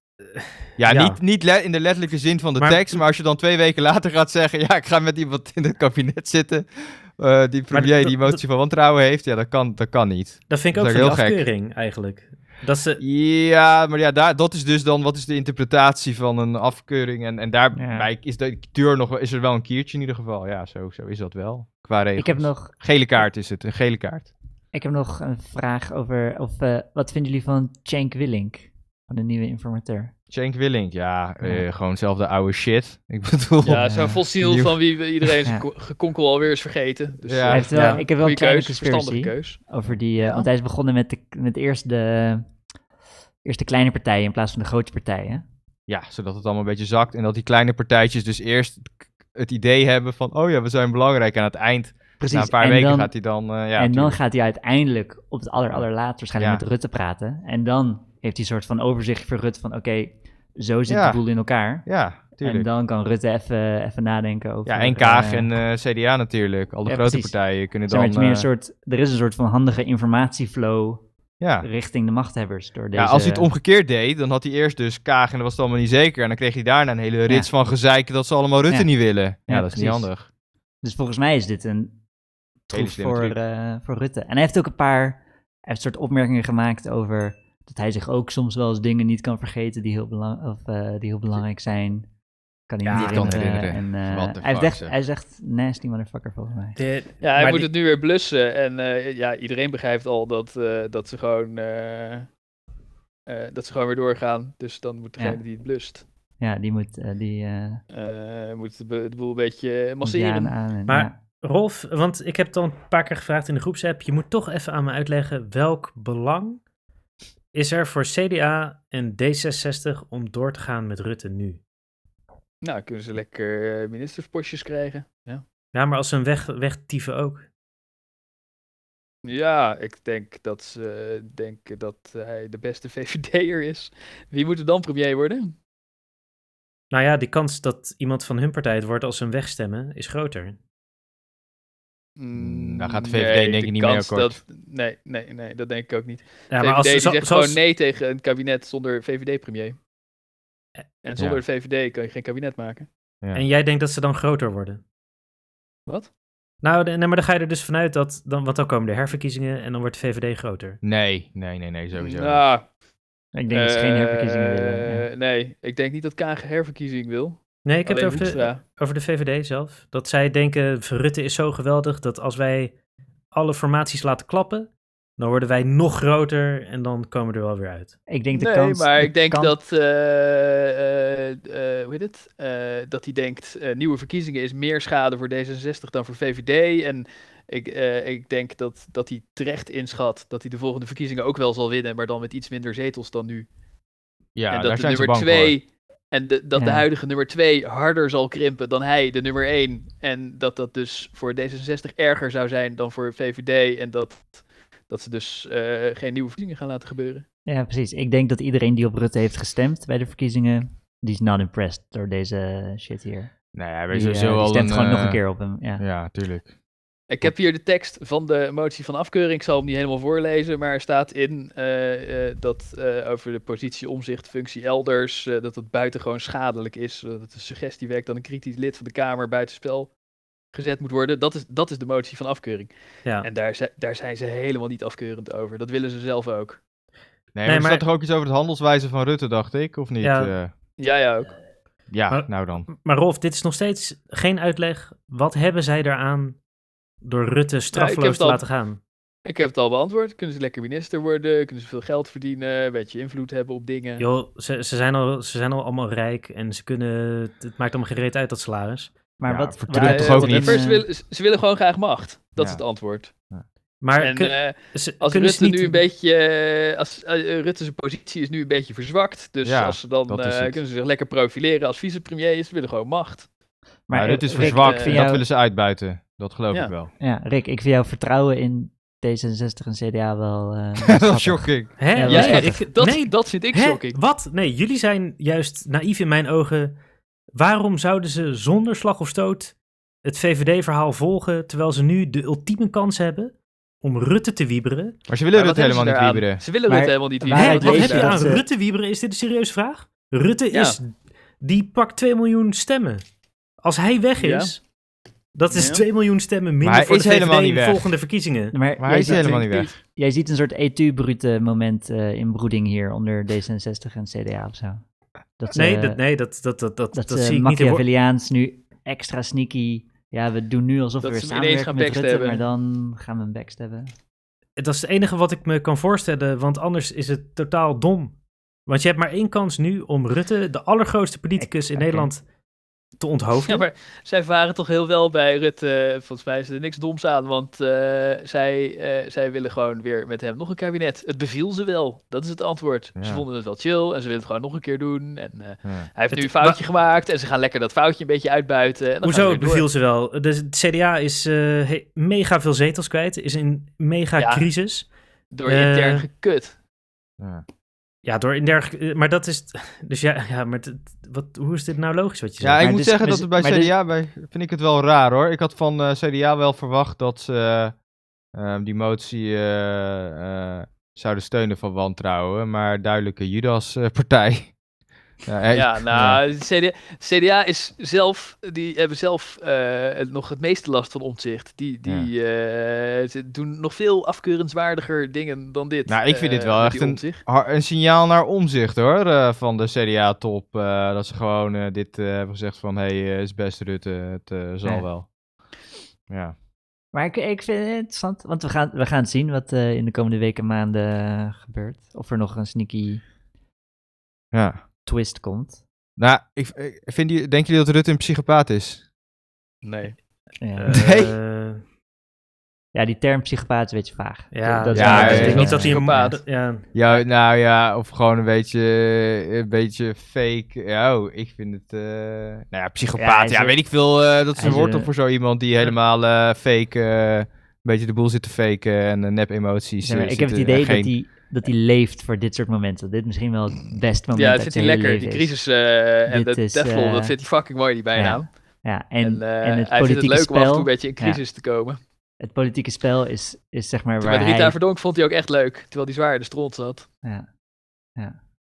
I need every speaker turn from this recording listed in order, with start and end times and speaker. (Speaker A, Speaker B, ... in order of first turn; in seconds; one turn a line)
Speaker A: 0.2-1.2
Speaker B: 0.8-11.4
Speaker A: 2.6-3.0
Speaker A: 7.7-8.4
Speaker A: 10.5-13.0
Speaker B: 13.0-24.3
Speaker C: 17.8-18.1
Speaker C: 22.2-22.7
Speaker C: 24.7-30.1
Speaker B: 30.3-34.8
Speaker D: 33.6-39.6
Speaker C: 33.7-34.2
Speaker B: 37.3-37.7
Speaker C: 37.5-42.5
Speaker A: 37.7-38.0
Speaker D: 40.2-40.5
Speaker C: 43.5-45.4
Speaker B: 45.9-54.2
Speaker C: 52.2-53.1
Speaker C: 53.7-65.5
Speaker B: 56.4-56.6
Speaker B: 60.9-61.2
Speaker B: 61.9-62.7
Speaker B: 64.7-68.5
Speaker C: 66.9-71.1
Speaker B: 71.4-71.7
Speaker C: 71.6-73.5
Speaker B: 73.0-80.3
Speaker C: 79.5-80.1
Speaker C: 80.8-82.0
Speaker C: 82.7-92.1
Speaker B: 82.7-83.4
Speaker C: 92.7-96.8
Speaker B: 92.8-94.9
Speaker A: 96.8-97.7
Speaker D: 97.2-102.3
Speaker D: 103.3-106.0
Speaker C: 106.4-107.8
Speaker D: 107.9-110.5
Speaker C: 110.0-111.2
Speaker A: 110.9-116.6
Speaker A: 117.5-121.6
Speaker D: 122.6-125.4
Speaker A: 125.7-127.5
Speaker D: 129.2-135.6
Speaker A: 136.9-140.6
Speaker D: 142.2-149.8
Speaker B: 142.3-144.4
Speaker A: 146.5-147.6
Speaker D: 151.0-152.9
Speaker A: 153.3-154.8
Speaker A: 156.6-160.8
Speaker B: 160.8-162.4
Speaker D: 162.0-162.7
Speaker C: 163.3-165.1
Speaker D: 163.5-168.6
Speaker A: 167.7-172.8
Speaker A: 173.3-178.0
Speaker C: 178.1-179.6
Speaker D: 178.3-193.5
Speaker B: 194.3-195.6
Speaker D: 194.5-207.2
Speaker C: 196.6-196.8
Speaker C: 207.5-213.3
Speaker B: 213.6-215.2
Speaker C: 213.9-215.8
Speaker B: 215.8-216.5
Speaker D: 217.1-229.9
Speaker D: 230.5-236.6
Speaker B: 237.3-240.5
Speaker A: 237.4-237.8
Speaker A: 240.0-240.3
Speaker D: 240.8-241.3
Speaker B: 241.9-242.7
Speaker A: 242.1-246.4
Speaker A: 247.0-248.8
Speaker D: 247.7-248.4
Speaker D: 249.2-254.1
Speaker A: 254.0-258.9
Speaker C: 259.2-260.9
Speaker B: 259.2-260.6
Speaker D: 259.7-263.1
Speaker A: 263.8-265.8
Speaker D: 264.0-273.3
Speaker B: 269.4-270.6
Speaker C: 273.9-275.2
Speaker B: 273.9-276.9
Speaker D: 274.4-275.0
Speaker C: 277.0-282.7
Speaker B: 280.8-281.7
Speaker A: 281.8-286.8
Speaker D: 282.1-284.0
Speaker A: 287.3-295.0
Speaker B: 295.1-296.4
Speaker D: 295.3-298.3
Speaker C: 296.7-298.5
Speaker A: 297.3-303.0
Speaker D: 300.5-300.8
Speaker A: 303.6-304.6
Speaker D: 304.2-304.5
Speaker A: 305.4-308.6
Speaker D: 305.5-305.8
Speaker B: 306.6-307.9
Speaker C: 308.5-314.8
Speaker B: 308.8-309.8
Speaker D: 309.0-309.8
Speaker C: 315.4-316.0
Speaker A: 315.5-317.8
Speaker C: 316.9-323.9
Speaker D: 321.0-322.4
Speaker A: 324.6-328.1
Speaker A: 328.7-332.2
Speaker C: 331.4-332.1
Speaker A: 333.0-333.6
Speaker D: 333.5-349.7
Speaker B: 343.0-343.2
Speaker A: 346.1-346.6
Speaker A: 349.0-354.9
Speaker D: 354.2-354.5
Speaker D: 355.3-356.6
Speaker A: 355.5-356.1
Speaker B: 357.2-357.4
Speaker A: 358.0-362.6
Speaker B: 362.4-367.8
Speaker C: 362.6-363.7
Speaker B: 368.4-374.6
Speaker B: 375.2-376.2
Speaker D: 375.5-387.2
Speaker B: 385.9-395.1
Speaker B: 396.1-396.4
Speaker C: 396.9-403.0
Speaker B: 404.3-404.6
Speaker C: 404.9-405.6
Speaker B: 406.0-408.8
Speaker D: 409.6-410.0
Speaker C: 410.4-410.7
Speaker A: 410.6-411.6
Speaker B: 410.7-411.1
Speaker C: 412.7-416.2
Speaker A: 414.3-416.6
Speaker B: 414.7-415.8
Speaker D: 414.9-416.2
Speaker B: 416.7-430.9
Speaker C: 423.0-423.7
Speaker C: 424.3-424.9
Speaker C: 429.8-435.4
Speaker D: 434.1-438.3
Speaker C: 436.1-437.2
Speaker C: 437.9-441.2
Speaker D: 439.0-441.8
Speaker C: 442.2-444.6
Speaker D: 444.0-446.9